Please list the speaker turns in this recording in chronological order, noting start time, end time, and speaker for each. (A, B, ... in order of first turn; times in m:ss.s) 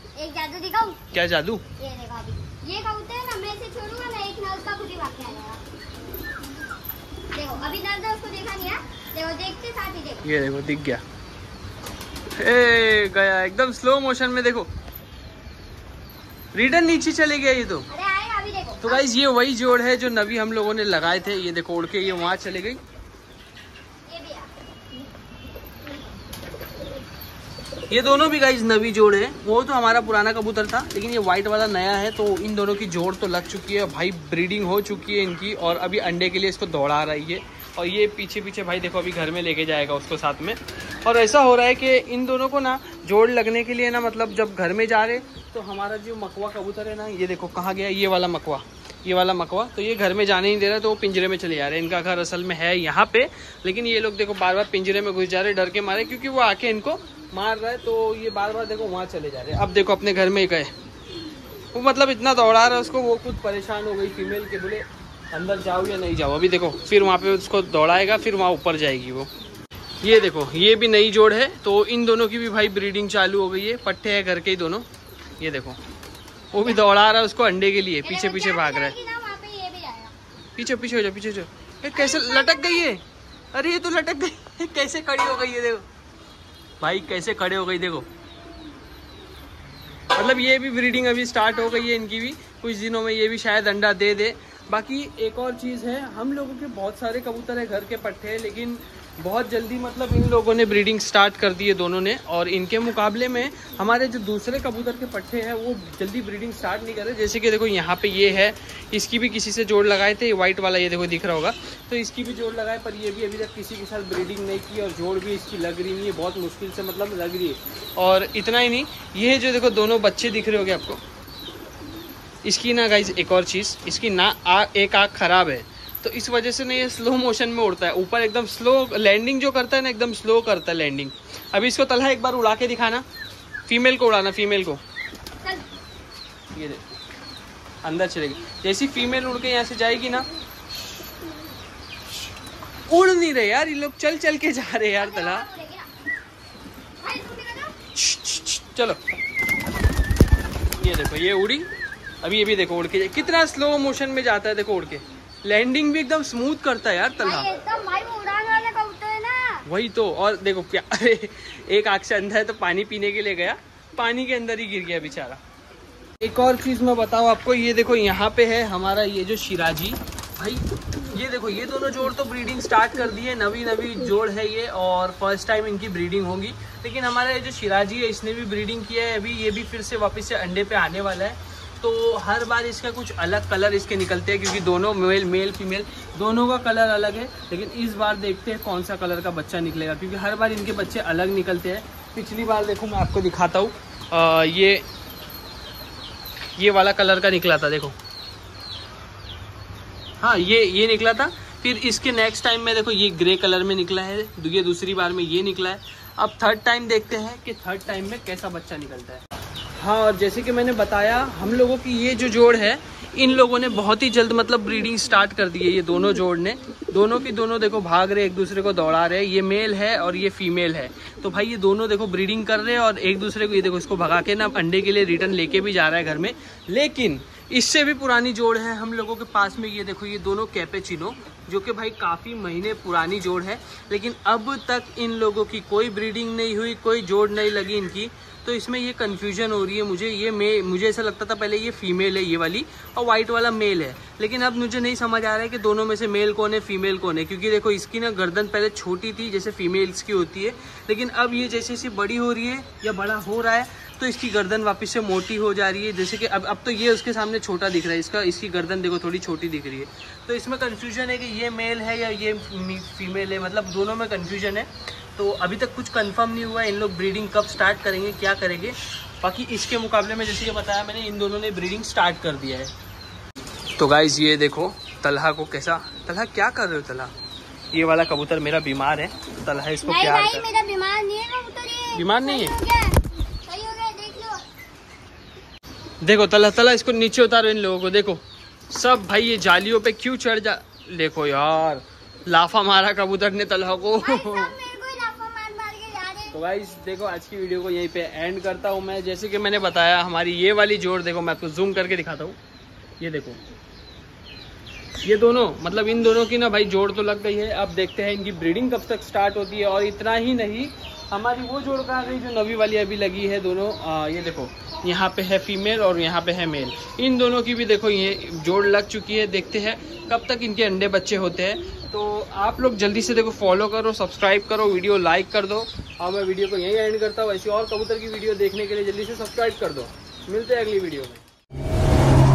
0:00.2-0:01.0 A
0:01.1-0:01.6 B
0:01.8-0:05.6 A
0:07.3-0:10.3 A
0:10.2-0:11.0 B
0:12.4-0:14.7 B
0:16.5-0:17.9 B
0:17.9-0:19.0 A
0:18.8-0:22.8 B
0:24.1-0:24.5 A
0:27.9-1:00.7 B
1:01.7-1:09.3 B
1:10.0-1:14.9 B
1:15.4-1:15.8 B
1:16.5-1:19.0 B
1:18.0-1:20.1 A
1:20.6-1:23.0 B
1:21.9-1:22.9 A
1:23.5-1:25.8 B
1:26.8-1:28.1 B
1:30.2-2:01.0 B
2:02.4-2:13.0 B
2:13.7-2:14.8 B
2:16.5-2:16.8 B
2:17.8-2:20.3 B
2:22.9-2:25.5 B
2:25.0-2:25.9 A
2:27.0-2:27.8 A
2:27.9-2:29.0 B
2:30.8-2:31.7 B
2:32.2-2:37.5 B
2:37.2-2:39.6 A
2:39.7-2:45.4 B
2:46.2-3:14.8 B
3:16.6-3:18.0 B
3:20.2-3:29.2 B
3:29.8-4:32.7 B
4:33.8-4:37.1 B
4:37.7-4:40.4 B
4:39.8-4:44.4 A
4:41.9-4:42.5 B
4:46.0-4:54.6 B
4:54.0-4:56.4 A
4:56.3-5:02.4 B
5:03.0-5:03.4 B
5:05.0-5:31.2 B